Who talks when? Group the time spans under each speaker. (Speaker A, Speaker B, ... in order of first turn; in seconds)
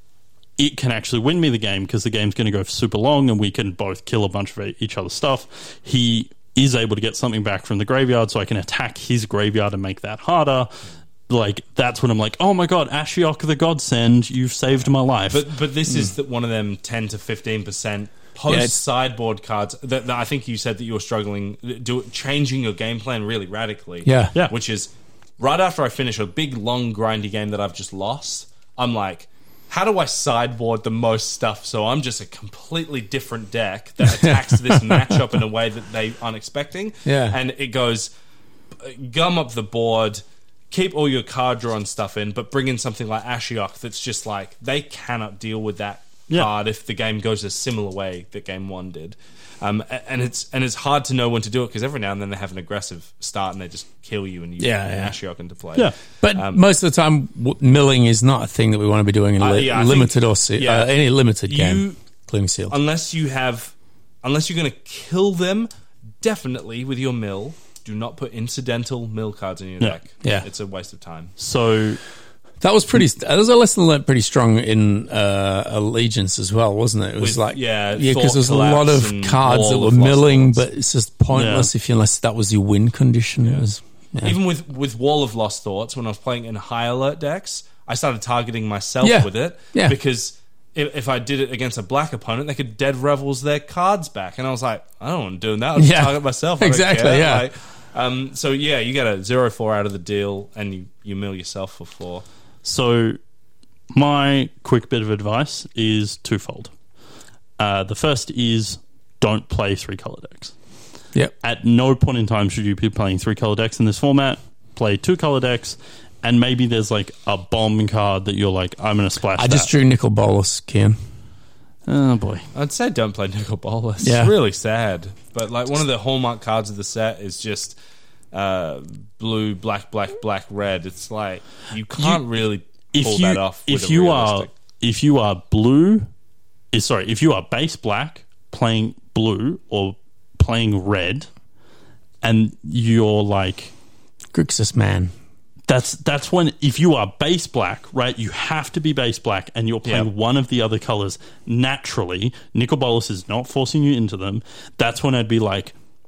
Speaker A: 0.6-15.5, 71.4-72.0, 81.3-81.7, 102.6-103.2, 103.9-106.7, 107.6-110.5, 111.4-119.7, 121.9-122.5, 132.0-132.2, 132.9-136.1, 136.7-141.3, 142.2-143.7, 145.7-155.7
Speaker B: 15.3-38.1, 38.8-56.6, 59.4-62.0, 62.7-65.7, 66.2-71.3, 77.2-80.6, 84.2-102.2, 122.5-127.8, 128.3-134.5
Speaker C: 18.5-18.8, 24.1-24.3, 34.1-35.2, 37.1-37.4, 54.6-55.1, 56.2-62.8, 72.6-84.4, 89.0-90.0, 95.8-97.5, 119.4-121.0, 124.0-124.3, 144.3-145.1